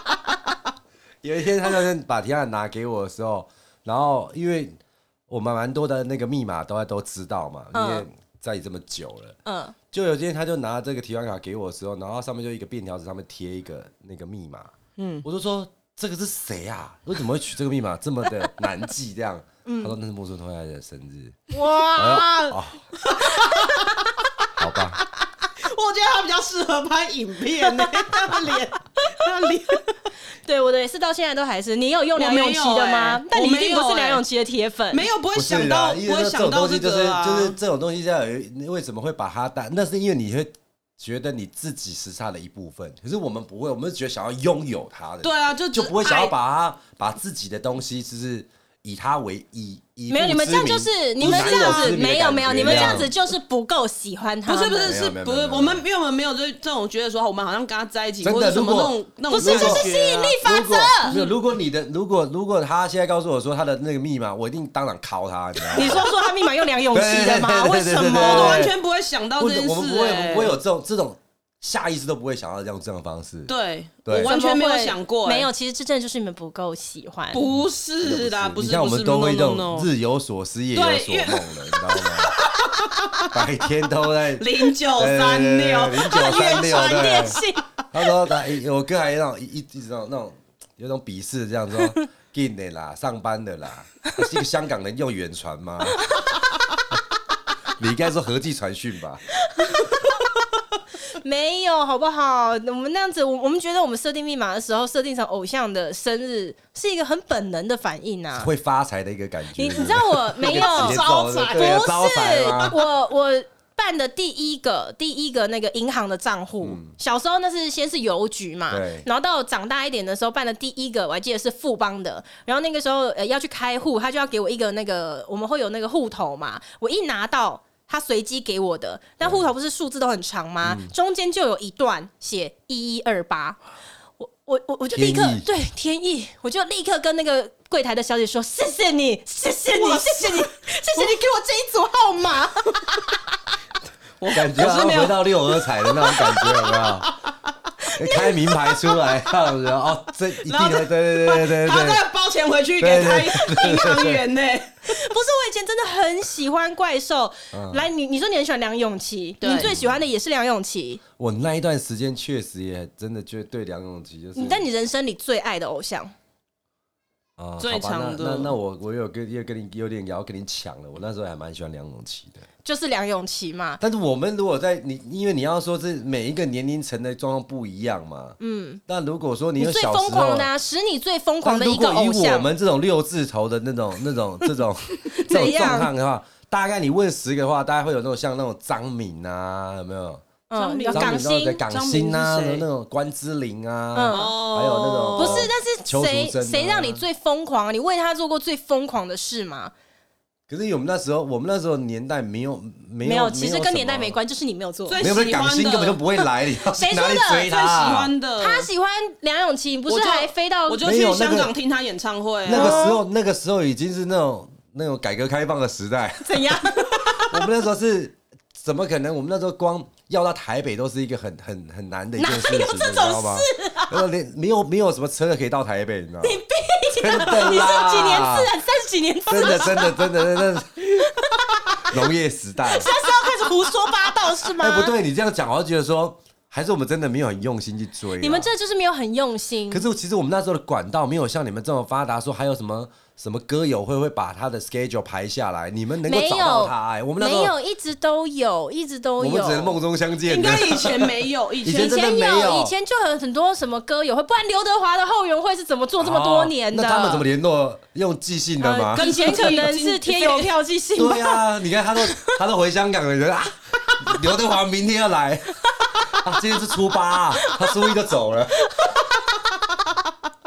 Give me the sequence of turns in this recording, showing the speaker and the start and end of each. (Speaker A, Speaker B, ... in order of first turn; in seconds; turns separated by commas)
Speaker A: 1.2-4.7, Speaker A: 5.3-9.4, Speaker B: 7.7-8.1, Speaker B: 9.4-9.8, Speaker A: 9.9-14.7, Speaker C: 15.0-15.2, Speaker A: 15.2-21.4, Speaker B: 19.6-19.9, Speaker B: 21.5-22.6, Speaker A: 22.0-22.8, Speaker C: 23.0-24.1, Speaker B: 23.2-24.5, Speaker A: 24.6-25.0, Speaker C: 25.6-29.9, Speaker B: 27.7-28.1, Speaker B: 30.4-35.0, Speaker C: 32.2-34.2, Speaker C: 34.9-37.6, Speaker A: 35.3-53.1, Speaker C: 45.2-46.3, Speaker B: 50.1-55.0, Speaker C: 51.2-52.0, Speaker C: 52.6-53.1, Speaker C: 54.5-60.4, Speaker A: 54.8-55.8, Speaker A: 58.2-59.9, Speaker B: 59.3-61.1, Speaker A: 60.4-66.1, Speaker C: 61.1-61.4, Speaker B: 65.7-68.7, Speaker A: 66.9-68.8, Speaker C: 68.1-70.6, Speaker A: 69.4-73.5, Speaker C: 73.5-75.5, Speaker A: 74.0-74.3, Speaker B: 74.1-77.4, Speaker C: 77.3-79.9, Speaker A: 77.5-82.4, Speaker C: 80.7-83.3, Speaker A: 83.3-87.4, Speaker C: 84.4-87.4, Speaker B: 86.1-87.7, Speaker A: 87.9-96.2, Speaker A: 97.8-99.2, Speaker B: 99.5-100.3, Speaker B: 101.2-108.5, Speaker A: 108.3-112.8, Speaker B: 109.5-133.6, Speaker C: 110.4-111.9, Speaker A: 116.6-116.9, Speaker A: 118.7-119.1, Speaker A: 130.6-130.9, Speaker B: 134.2-143.1, Speaker A: 134.9-135.4, Speaker C: 139.7-140.5, Speaker C: 144.2-147.3, Speaker A: 144.3-147.2, Speaker B: 147.8-148.6, Speaker A: 147.9-152.1, Speaker C: 150.4-154.7, Speaker A: 152.8-154.2, Speaker B: 154.9-161.0, Speaker A: 157.5-157.8, Speaker C: 159.4-159.7, Speaker A: 159.6-160.0, Speaker A: 161.2-164.7, Speaker B: 164.3-166.1, Speaker A: 167.4-172.4, Speaker C: 167.6-168.5, Speaker B: 172.7-173.8, Speaker A: 173.8-180.5, Speaker B: 178.4-178.8, Speaker B: 179.6-182.5, Speaker A: 181.4-190.2, Speaker B: 185.1-185.9, Speaker B: 190.5-191.6, Speaker C: 190.6-192.7, Speaker A: 190.9-197.0, Speaker B: 193.9-194.3, Speaker C: 194.1-195.5, Speaker B: 195.2-199.7, Speaker A: 200.5-204.2, Speaker B: 203.0-205.0, Speaker C: 204.9-206.0, Speaker A: 205.0-208.1, Speaker B: 206.7-207.9, Speaker C: 207.5-208.7, Speaker B: 208.4-210.9, Speaker C: 209.9-212.9, Speaker A: 210.8-211.5, Speaker B: 212.5-213.0, Speaker A: 212.5-226.4, Speaker B: 216.2-217.4, Speaker B: 222.2-224.0, Speaker B: 226.2-230.4, Speaker A: 227.0-228.5, Speaker A: 229.3-230.8, Speaker B: 231.0-231.9, Speaker A: 231.9-232.9, Speaker B: 232.7-234.9, Speaker A: 234.6-238.5, Speaker B: 238.2-239.8, Speaker A: 239.7-247.5, Speaker B: 246.1-249.8, Speaker A: 249.2-252.7, Speaker C: 250.3-252.1, Speaker B: 251.7-257.2, Speaker A: 256.0-259.1, Speaker B: 258.6-262.4, Speaker C: 259.0-260.5, Speaker A: 261.0-268.7, Speaker B: 265.9-266.2, Speaker B: 267.4-267.9, Speaker B: 268.7-269.1